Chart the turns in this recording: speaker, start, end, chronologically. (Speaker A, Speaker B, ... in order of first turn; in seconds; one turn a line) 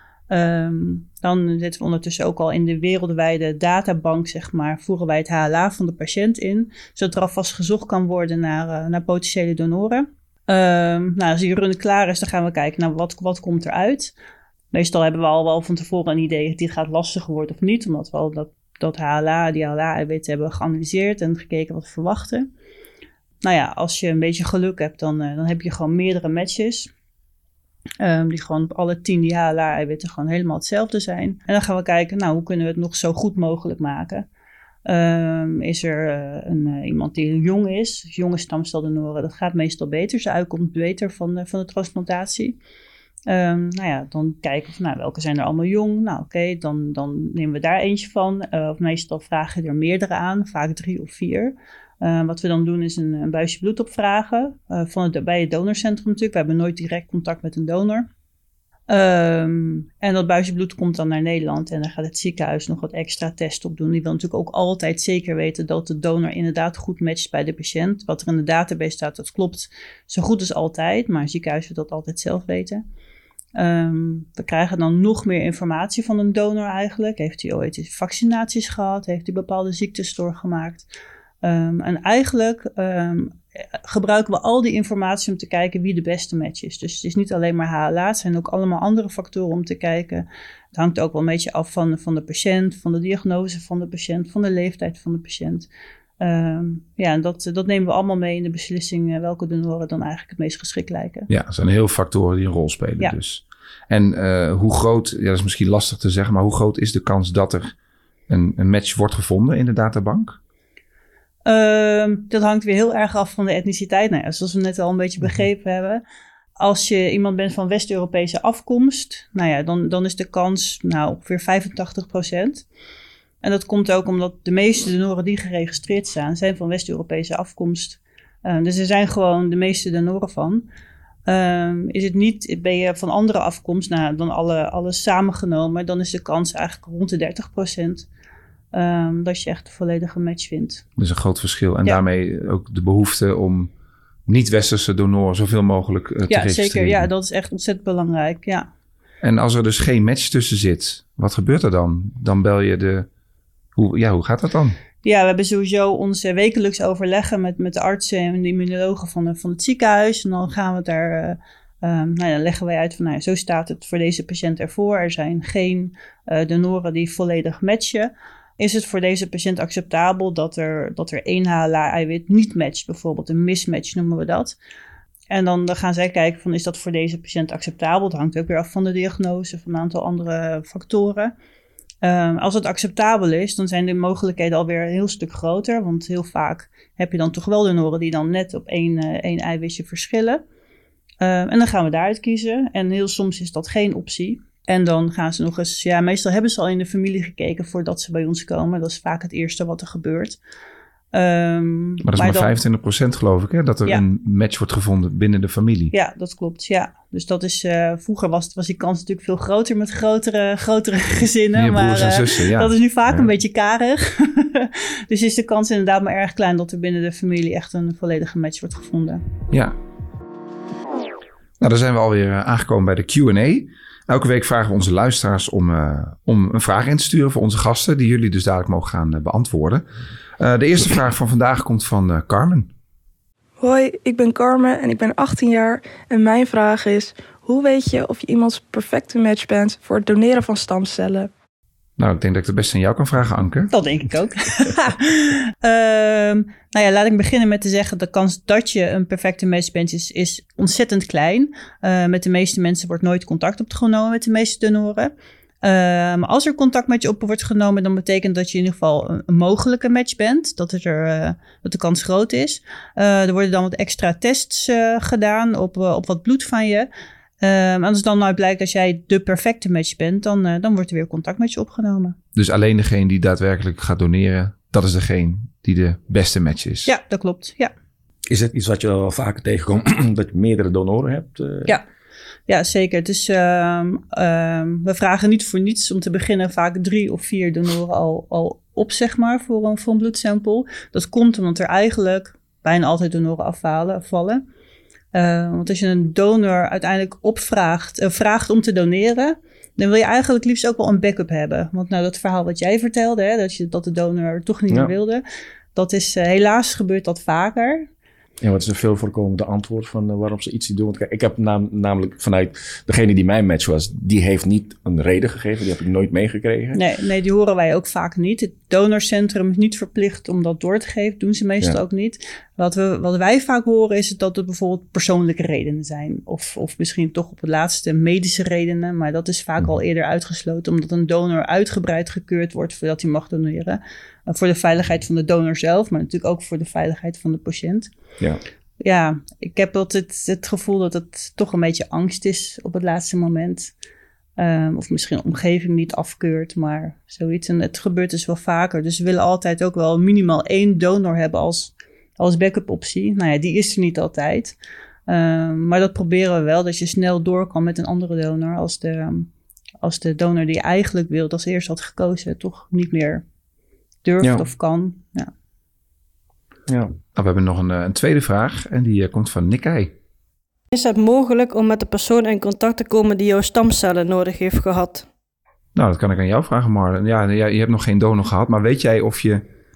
Speaker A: 0.3-14.1
Speaker A: 14.7-22.5
Speaker A: 23.4-26.9
Speaker A: 28.0-34.3
Speaker A: 34.8-42.6
Speaker A: 43.3-58.1
Speaker A: 58.9-72.8
Speaker A: 73.5-80.9
Speaker A: 81.4-95.7
Speaker A: 96.2-101.3
Speaker B: 101.3-107.7
Speaker B: 108.3-110.4
Speaker A: 111.5-116.0
Speaker A: 116.6-122.7
Speaker A: 123.4-130.7
Speaker A: 131.3-138.1
Speaker A: 138.7-140.8
Speaker B: 141.0-143.7
Speaker B: 144.3-147.1
Speaker A: 146.3-148.7
Speaker B: 149.2-153.1
Speaker B: 153.8-154.8
Speaker A: 155.0-174.6
Speaker A: 175.3-181.3
Speaker A: 182.0-190.4
Speaker A: 191.2-200.4
Speaker A: 201.1-202.5
Speaker B: 202.0-205.9
Speaker A: 205.9-219.2
Speaker B: 211.5-213.3
Speaker B: 219.5-219.8
Speaker B: 221.6-229.8
Speaker B: 230.4-232.7
Speaker C: 233.6-241.3
Speaker B: 242.0-243.7
Speaker A: 243.7-255.1
Speaker A: 255.6-266.9
Speaker A: 267.4-272.1
Speaker B: 272.4-276.9
Speaker A: 276.9-277.7
Speaker D: 278.3-281.8
Speaker A: 282.5-294.4
Speaker A: 295.1-305.2
Speaker A: 305.7-307.9
Speaker D: 308.4-316.8
Speaker A: 316.7-337.9
Speaker A: 338.8-343.7
Speaker A: 344.4-354.6
Speaker A: 355.1-359.3
Speaker A: 359.8-363.2
Speaker A: 364.0-365.3
Speaker D: 364.2-364.4
Speaker D: 366.7-366.9
Speaker B: 367.1-369.9
Speaker E: 370.7-375.0
Speaker B: 375.7-379.4